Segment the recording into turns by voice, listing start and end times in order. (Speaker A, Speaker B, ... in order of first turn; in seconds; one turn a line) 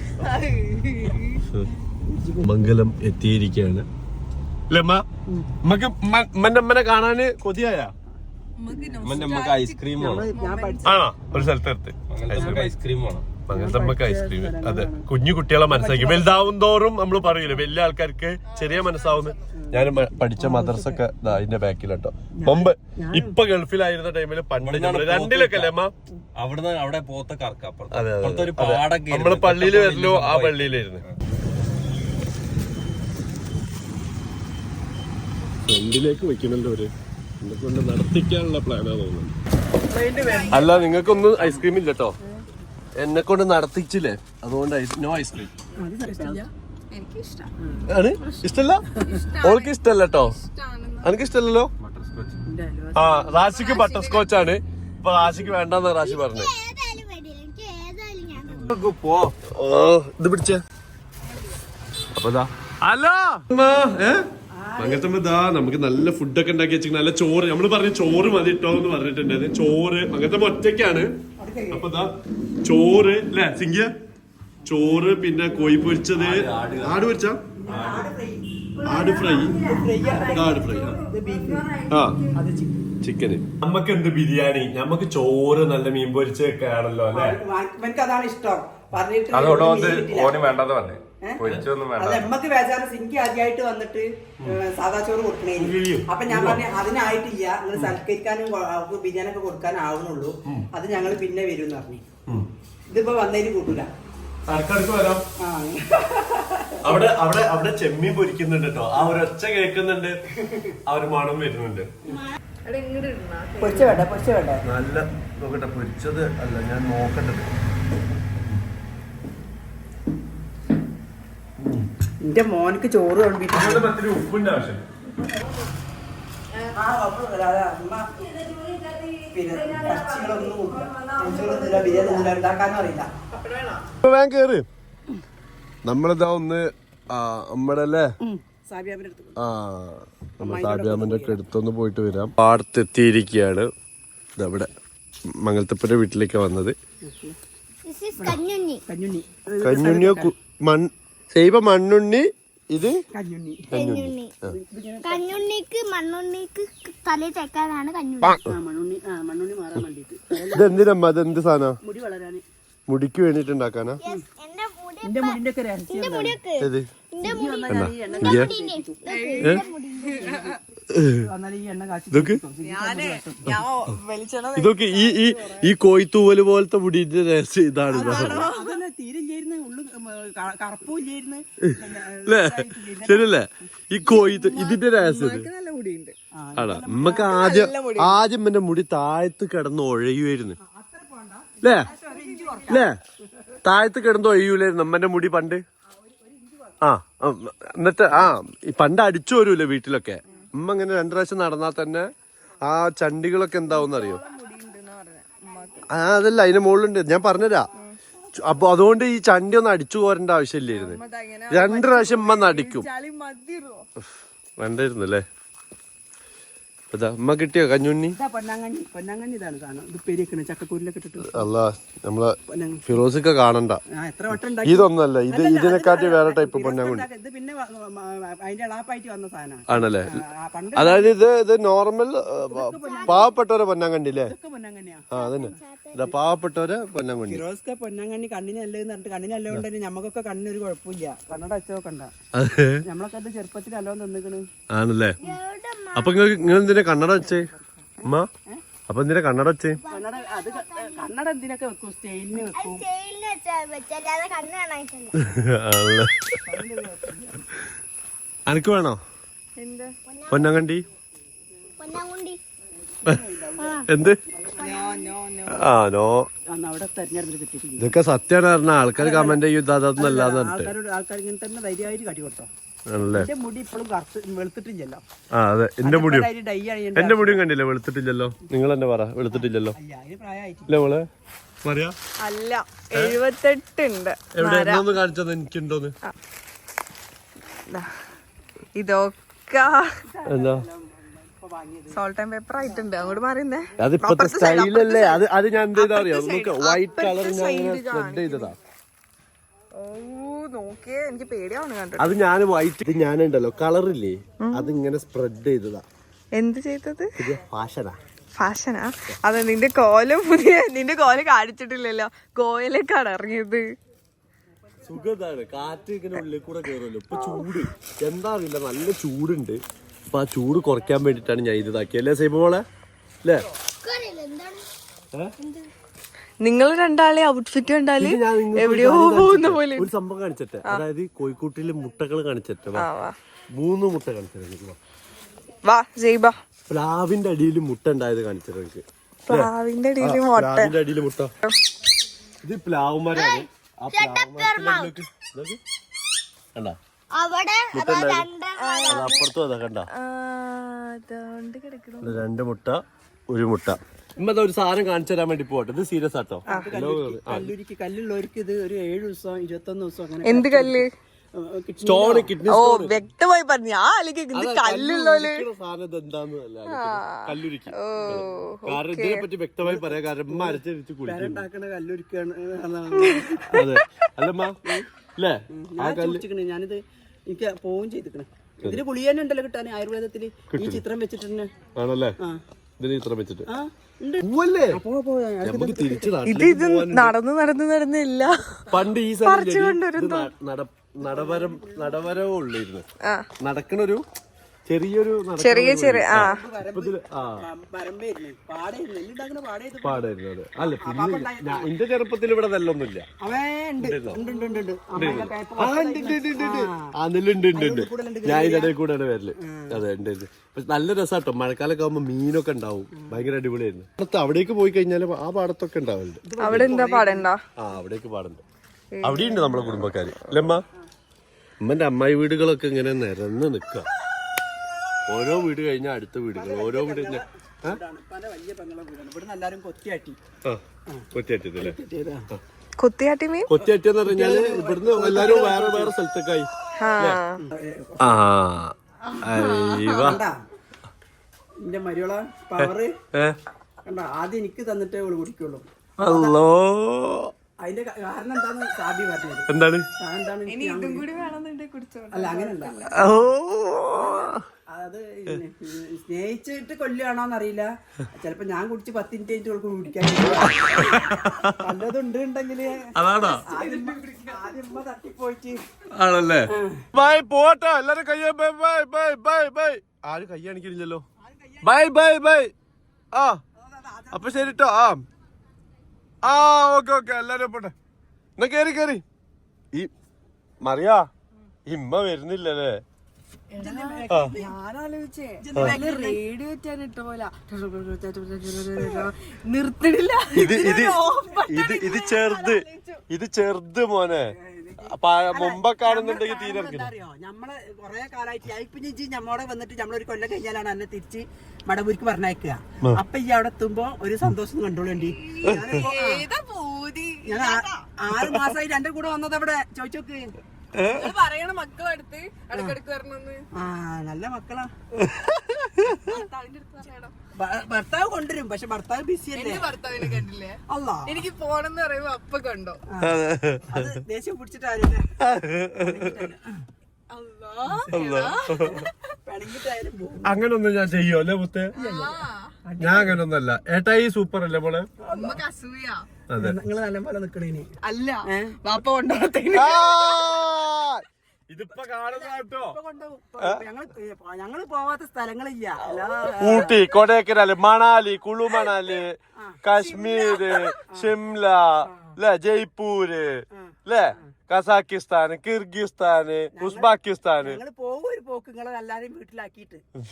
Speaker A: 0.1-1.4
Speaker B: 2.1-2.5
Speaker C: 2.4-3.9
Speaker C: 4.7-5.0
Speaker C: 5.6-7.9
Speaker A: 8.6-11.0
Speaker B: 8.7-9.0
Speaker D: 9.0-10.3
Speaker B: 10.0-11.0
Speaker C: 10.8-12.7
Speaker D: 12.1-13.3
Speaker B: 12.3-12.7
Speaker C: 13.5-25.9
Speaker B: 13.5-15.1
Speaker B: 15.7-16.6
Speaker A: 18.5-19.5
Speaker B: 19.5-21.1
Speaker B: 22.4-23.4
Speaker D: 24.6-25.8
Speaker D: 26.4-31.2
Speaker C: 27.9-31.0
Speaker C: 35.7-39.3
Speaker B: 39.9-40.7
Speaker A: 40.2-41.4
Speaker C: 40.5-42.1
Speaker C: 43.0-45.5
Speaker B: 45.8-46.5
Speaker A: 46.9-47.5
Speaker C: 47.9-48.9
Speaker A: 49.0-51.2
Speaker C: 49.4-50.3
Speaker C: 51.0-51.7
Speaker D: 51.8-52.4
Speaker B: 52.5-53.5
Speaker C: 53.0-56.5
Speaker A: 53.3-54.6
Speaker E: 56.0-58.7
Speaker D: 58.5-59.4
Speaker C: 59.5-60.6
Speaker C: 62.1-64.2
Speaker B: 64.5-65.1
Speaker C: 64.8-71.1
Speaker B: 71.4-71.9
Speaker C: 71.7-73.9
Speaker C: 74.7-77.4
Speaker B: 74.7-75.3
Speaker D: 76.1-77.1
Speaker B: 77.6-78.6
Speaker D: 77.7-78.1
Speaker A: 78.8-82.4
Speaker C: 78.8-79.6
Speaker B: 79.6-81.7
Speaker C: 80.2-81.0
Speaker C: 81.9-82.2
Speaker B: 82.3-82.9
Speaker C: 83.0-87.4
Speaker B: 87.1-90.4
Speaker D: 89.3-92.3
Speaker C: 91.4-91.7
Speaker B: 92.0-102.0
Speaker C: 95.6-96.6
Speaker B: 102.9-103.9
Speaker C: 104.5-105.2
Speaker B: 105.4-106.8
Speaker C: 106.8-110.2
Speaker C: 110.9-111.9
Speaker A: 112.7-114.0
Speaker B: 113.6-114.6
Speaker C: 114.7-117.5
Speaker C: 121.6-121.9
Speaker B: 122.2-123.9
Speaker C: 123.5-124.8
Speaker B: 126.8-128.3
Speaker A: 128.5-132.3
Speaker B: 129.3-133.1
Speaker A: 133.3-133.8
Speaker C: 134.1-134.7
Speaker C: 135.8-138.1
Speaker B: 138.2-139.4
Speaker C: 139.4-143.7
Speaker B: 140.4-141.4
Speaker C: 144.4-144.7
Speaker C: 145.4-146.8
Speaker B: 147.0-147.4
Speaker E: 147.8-148.8
Speaker B: 148.2-150.3
Speaker C: 149.6-153.0
Speaker B: 153.1-153.7
Speaker C: 153.7-154.5
Speaker E: 153.7-154.3
Speaker B: 154.5-155.5
Speaker E: 155.0-158.4
Speaker B: 158.5-160.8
Speaker C: 160.5-161.8
Speaker B: 161.8-162.4
Speaker C: 162.9-164.0
Speaker E: 164.0-170.4
Speaker B: 165.0-166.4
Speaker C: 166.6-166.9
Speaker B: 167.2-169.1
Speaker C: 167.7-168.5
Speaker A: 169.1-170.6
Speaker B: 170.2-170.6
Speaker C: 170.9-171.2
Speaker B: 171.2-173.6
Speaker C: 172.1-172.4
Speaker A: 172.6-175.7
Speaker C: 174.6-178.5
Speaker B: 177.9-183.3
Speaker A: 178.0-178.8
Speaker C: 181.6-185.5
Speaker A: 184.2-186.1
Speaker B: 186.3-187.5
Speaker C: 186.6-190.6
Speaker A: 187.3-188.2
Speaker B: 190.6-192.9
Speaker C: 191.6-191.9
Speaker A: 192.0-192.8
Speaker C: 192.7-193.0
Speaker C: 193.6-195.6
Speaker B: 196.0-196.8
Speaker C: 196.8-202.1
Speaker C: 202.6-204.2
Speaker A: 203.7-205.9
Speaker C: 205.9-207.7
Speaker C: 208.4-212.9
Speaker A: 210.7-213.8
Speaker C: 214.6-215.2
Speaker C: 216.9-218.2
Speaker B: 218.2-221.5
Speaker C: 221.2-222.3
Speaker B: 222.5-222.8
Speaker C: 222.9-223.8
Speaker B: 223.9-231.2
Speaker C: 224.6-227.1
Speaker C: 229.7-230.1
Speaker C: 230.8-234.3
Speaker B: 232.5-233.3
Speaker E: 232.8-233.3
Speaker B: 234.2-235.6
Speaker C: 235.1-237.4
Speaker E: 235.1-236.3
Speaker B: 237.3-242.1
Speaker C: 242.3-242.8
Speaker B: 242.8-244.5
Speaker C: 244.7-245.2
Speaker E: 245.2-246.5
Speaker C: 246.0-247.5
Speaker B: 246.9-248.6
Speaker C: 248.0-248.3
Speaker C: 248.9-249.8
Speaker E: 249.8-251.1
Speaker B: 249.9-252.8
Speaker E: 252.4-255.2
Speaker C: 255.2-256.1
Speaker B: 256.5-257.4
Speaker C: 258.5-259.0
Speaker A: 259.6-259.9
Speaker E: 260.1-260.5
Speaker C: 260.3-260.8
Speaker E: 261.8-262.4
Speaker B: 263.0-265.1
Speaker E: 263.6-263.9
Speaker C: 263.9-264.2
Speaker A: 264.6-265.6
Speaker C: 265.5-266.3
Speaker B: 266.5-267.9
Speaker C: 267.8-270.7
Speaker B: 269.0-269.4
Speaker B: 270.0-272.5
Speaker C: 272.9-273.3
Speaker B: 273.1-275.0
Speaker C: 275.3-276.3
Speaker B: 275.8-277.4
Speaker C: 276.9-279.8
Speaker B: 279.3-280.8
Speaker C: 280.7-281.1
Speaker C: 281.6-281.9
Speaker A: 282.2-284.9
Speaker C: 282.9-283.2
Speaker C: 284.4-285.9
Speaker A: 288.8-289.9
Speaker B: 290.1-292.0
Speaker C: 290.3-290.6
Speaker A: 291.9-295.2
Speaker B: 292.6-293.2
Speaker C: 293.8-298.6
Speaker A: 295.7-298.5
Speaker A: 299.8-302.1
Speaker C: 302.0-305.8
Speaker A: 304.4-304.8
Speaker A: 306.4-307.2
Speaker C: 307.2-308.0
Speaker A: 308.4-313.6
Speaker C: 314.9-319.6
Speaker C: 320.1-322.6
Speaker E: 323.8-324.7
Speaker E: 325.4-325.7
Speaker A: 326.4-329.9
Speaker C: 328.0-332.9
Speaker A: 332.8-333.1
Speaker C: 333.5-334.8
Speaker A: 335.6-336.4
Speaker C: 336.7-341.3
Speaker A: 339.3-340.8
Speaker C: 342.4-345.6
Speaker E: 343.1-344.9
Speaker E: 347.1-349.3
Speaker C: 347.7-348.3
Speaker A: 348.6-349.0
Speaker C: 348.9-349.9
Speaker A: 349.9-352.2
Speaker C: 352.0-357.5
Speaker B: 356.5-362.3
Speaker A: 360.2-360.9
Speaker C: 361.8-362.9
Speaker A: 362.5-365.4
Speaker C: 364.3-371.5
Speaker A: 366.7-369.3
Speaker B: 369.6-373.6
Speaker C: 373.5-374.6
Speaker C: 375.2-376.2
Speaker B: 375.5-381.5
Speaker C: 380.5-380.8
Speaker C: 381.8-382.1
Speaker C: 382.8-383.5
Speaker B: 383.5-386.2
Speaker C: 384.2-384.8
Speaker C: 385.4-387.1
Speaker A: 386.2-388.6
Speaker C: 388.7-392.9
Speaker A: 389.2-390.3
Speaker B: 391.0-392.2
Speaker C: 393.4-394.0
Speaker C: 394.7-397.4
Speaker A: 395.4-396.4
Speaker B: 396.1-400.1
Speaker C: 399.8-403.1
Speaker B: 400.6-401.7
Speaker B: 403.2-406.9
Speaker C: 403.8-404.2
Speaker C: 404.9-416.7
Speaker B: 407.5-408.7
Speaker B: 409.4-409.8
Speaker B: 412.9-413.3
Speaker B: 416.3-417.3
Speaker A: 416.4-417.4
Speaker C: 417.6-418.4
Speaker A: 418.9-420.5
Speaker C: 419.0-420.6
Speaker C: 421.6-423.9
Speaker C: 425.1-427.8
Speaker B: 426.3-430.2
Speaker C: 431.1-431.8
Speaker B: 431.6-432.3
Speaker A: 432.8-433.5
Speaker C: 433.5-437.2
Speaker B: 434.0-435.9
Speaker A: 436.8-437.4
Speaker B: 437.4-438.2
Speaker C: 438.0-440.2
Speaker A: 439.3-440.1
Speaker B: 439.9-440.4
Speaker B: 441.6-443.0
Speaker C: 442.6-443.4
Speaker B: 443.9-446.4
Speaker C: 446.0-447.3
Speaker B: 447.6-451.1
Speaker C: 449.5-449.9
Speaker A: 450.5-453.2
Speaker B: 452.1-452.9
Speaker C: 452.9-454.4
Speaker B: 454.7-462.9
Speaker C: 460.2-461.7
Speaker C: 462.9-463.4
Speaker B: 463.5-465.6
Speaker A: 463.5-464.2
Speaker C: 465.9-471.0
Speaker B: 466.5-466.9
Speaker B: 471.2-471.8
Speaker C: 471.6-472.5
Speaker C: 473.1-473.4
Speaker B: 473.6-474.6
Speaker C: 474.1-475.0
Speaker C: 476.2-477.7
Speaker C: 478.4-479.0
Speaker C: 480.6-481.1
Speaker C: 481.7-482.8
Speaker A: 483.5-493.0
Speaker B: 483.6-484.5
Speaker C: 484.1-484.4
Speaker B: 485.4-486.2
Speaker C: 490.3-494.3
Speaker B: 490.5-491.2
Speaker B: 494.4-506.2
Speaker C: 494.8-496.9
Speaker A: 505.2-507.8
Speaker B: 507.2-510.3
Speaker C: 510.8-511.1
Speaker A: 510.9-513.4
Speaker B: 512.5-512.8
Speaker B: 513.6-514.7
Speaker C: 515.0-516.0
Speaker A: 515.9-517.1
Speaker B: 517.4-519.7
Speaker A: 519.3-522.8
Speaker B: 520.7-521.2
Speaker C: 523.0-524.0
Speaker B: 523.7-525.1
Speaker C: 525.2-526.3
Speaker B: 525.8-526.6
Speaker A: 527.1-528.9
Speaker B: 527.6-530.4
Speaker C: 527.9-528.8
Speaker C: 530.3-531.8
Speaker A: 531.7-532.5
Speaker B: 531.8-533.2
Speaker C: 532.8-534.9
Speaker B: 535.0-535.4
Speaker A: 535.1-536.1
Speaker C: 536.3-536.6
Speaker B: 536.3-537.7
Speaker A: 537.8-540.5
Speaker B: 538.3-538.5
Speaker C: 539.5-542.8
Speaker B: 542.1-546.8
Speaker C: 545.9-557.6
Speaker A: 549.8-550.7
Speaker B: 551.9-552.1
Speaker B: 553.5-554.3
Speaker B: 556.5-559.8